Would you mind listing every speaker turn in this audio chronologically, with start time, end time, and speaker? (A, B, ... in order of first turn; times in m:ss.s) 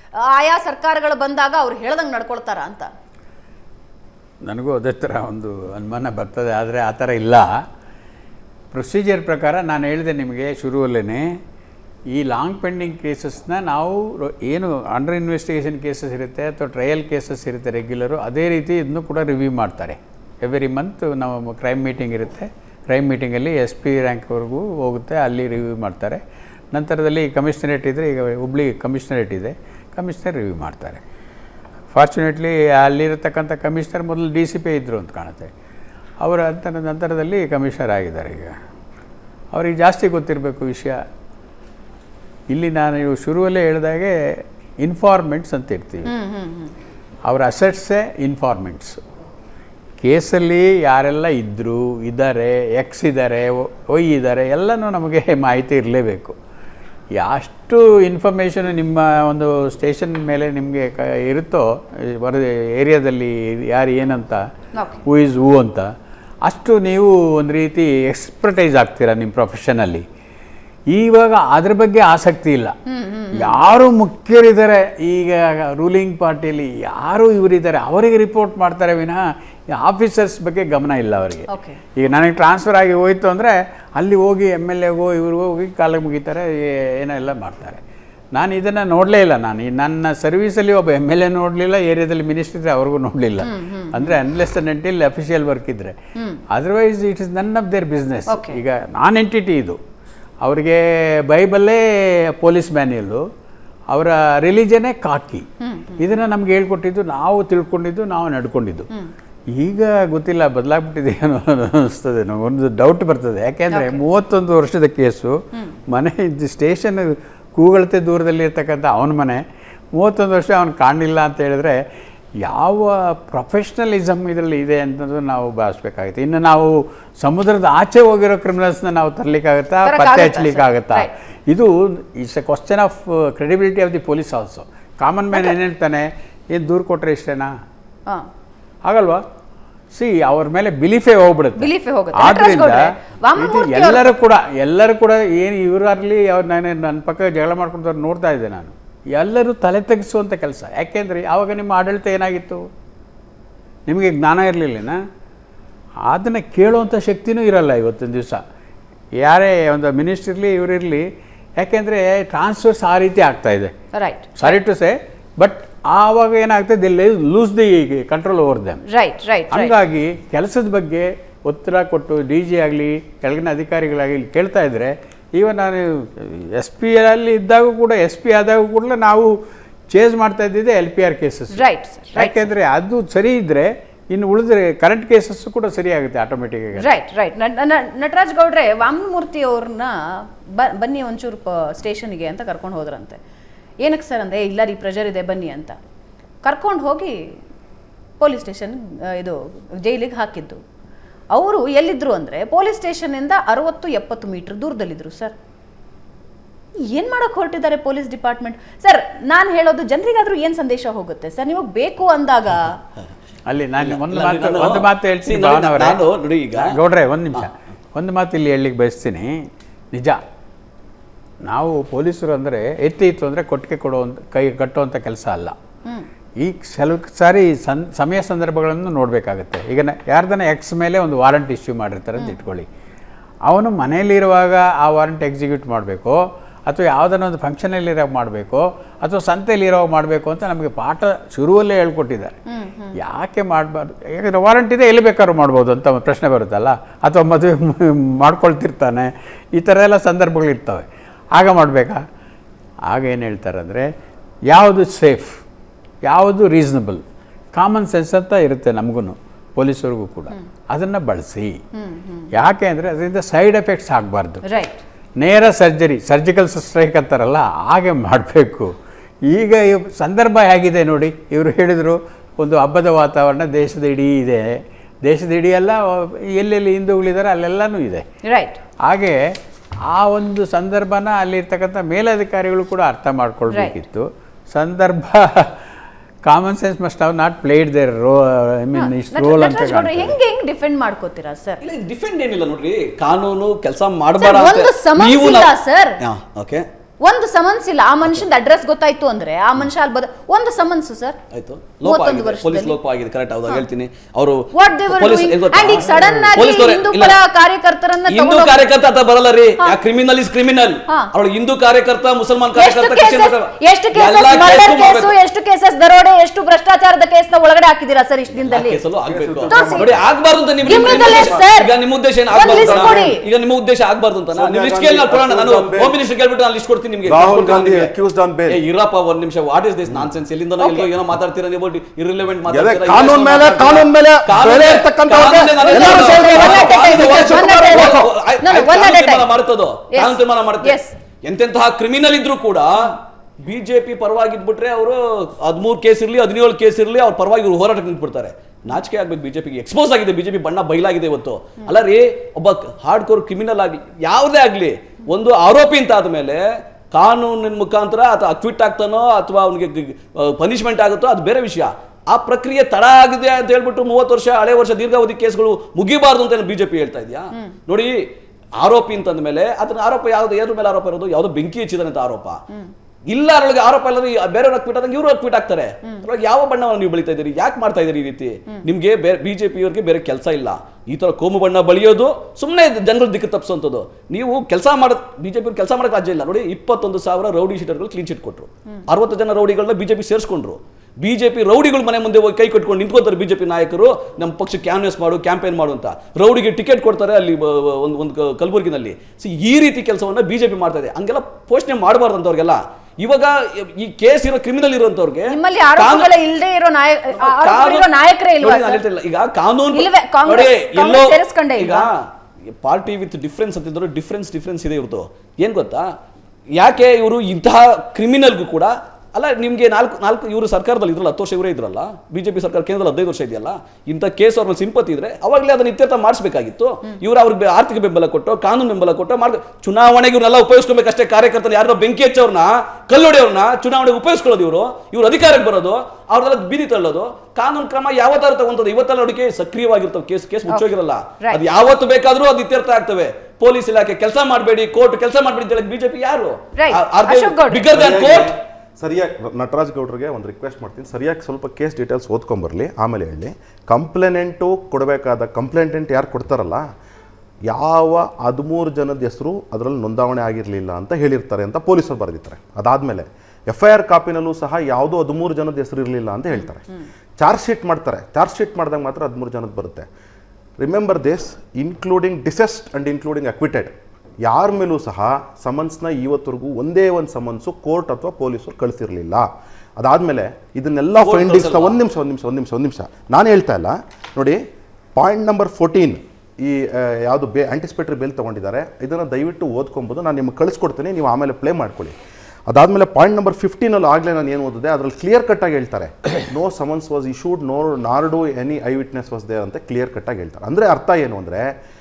0:00.3-0:02.9 A
0:04.4-0:07.6 B
0:08.7-0:11.4 B
0:12.1-0:26.2 B
0:26.7-0:31.0 B
0:31.9-0:35.5 B
0:36.2-0:38.6 B
0:39.5-0:41.0 B
0:42.5-0:46.1 B
0:46.1-0:46.7 A
0:47.2-0:49.0 B
0:50.0-0:56.4 B
0:57.1-1:04.4 B
1:04.7-1:05.0 A
1:05.0-1:05.9 B
1:06.4-1:10.0 B
1:10.9-1:12.7 B
1:12.9-1:13.5 A
1:13.3-1:27.8 B
1:21.5-1:21.8 A
1:28.3-1:35.9 B
1:33.4-1:34.1 A
1:36.5-1:39.8 B
1:38.3-1:38.6 A
1:40.4-1:43.2 B
1:43.9-1:45.4 B
1:45.6-1:46.1 A
1:46.0-1:48.9 B
1:49.5-1:55.4 B
1:53.7-1:54.0 A
1:55.9-2:01.8 B
2:02.4-2:17.5 B
2:09.8-2:11.1 A
2:18.8-2:19.2 B
2:19.9-2:22.8 B
2:21.6-2:24.1 A
2:23.4-2:32.6 B
2:33.9-2:35.0 B
2:36.0-2:38.4 B
2:39.2-2:43.7 B
2:43.9-2:44.6 A
2:44.3-2:48.8 B
2:48.9-2:49.7 A
2:49.5-2:59.3 B
2:59.9-3:06.9 B
3:01.5-3:02.4 A
3:06.7-3:09.9 A
3:10.6-3:13.2 A
3:13.8-3:15.8 A
3:16.4-3:17.2 A
3:18.2-3:20.6 A
3:21.3-3:25.3 A
3:26.9-3:32.6 A
3:33.5-3:36.0 B
3:33.8-3:36.7 C
3:36.5-3:39.4 B
3:39.9-3:40.2 B
3:41.4-3:45.6 B
3:46.4-3:52.7 B
3:53.4-4:02.3 B
4:02.5-4:03.0 A
4:03.0-4:12.0 B
4:12.9-4:13.9 B
4:14.5-4:15.4 B
4:16.0-4:17.0 B
4:17.5-4:21.6 B
4:21.8-4:22.3 A
4:22.3-4:24.4 B
4:24.4-4:24.8 A
4:25.2-4:28.7 B
4:29.2-4:38.0 B
4:38.2-4:38.6 A
4:38.8-4:39.2 B
4:39.8-4:45.5 B
4:43.5-4:43.8 A
4:46.2-4:50.2 B
4:48.7-4:51.6 A
4:51.6-4:56.6 C
4:54.2-4:56.0 A
4:57.0-5:01.2 A
5:01.3-5:07.2 C
5:01.8-5:02.8 A
5:04.5-5:08.6 A
5:08.1-5:15.1 C
5:12.5-5:18.8 A
5:18.4-5:27.9 C
5:19.0-5:20.0 D
5:19.5-5:20.0 A
5:20.6-5:21.4 D
5:20.6-5:21.7 A
5:22.3-5:23.1 D
5:22.3-5:23.2 A
5:24.3-5:26.0 D
5:27.0-5:28.6 D
5:28.5-6:08.0 C
5:30.6-5:30.9 A
5:32.5-5:38.1 D
5:35.6-5:39.3 A
5:39.9-5:40.9 A
6:08.6-6:12.4 C
6:13.1-6:46.1 C
6:45.3-6:48.8 A
6:47.2-6:47.9 C
6:48.4-6:52.0 C
6:49.7-6:51.9 A
6:52.6-6:55.9 C
6:56.6-7:28.4 C
7:26.6-7:27.7 A
7:27.7-7:36.6 D
7:37.5-7:49.9 D
7:50.6-7:59.3 D
7:59.8-8:04.4 D
8:01.0-8:01.8 C
8:04.9-8:12.0 D
8:12.5-8:21.5 D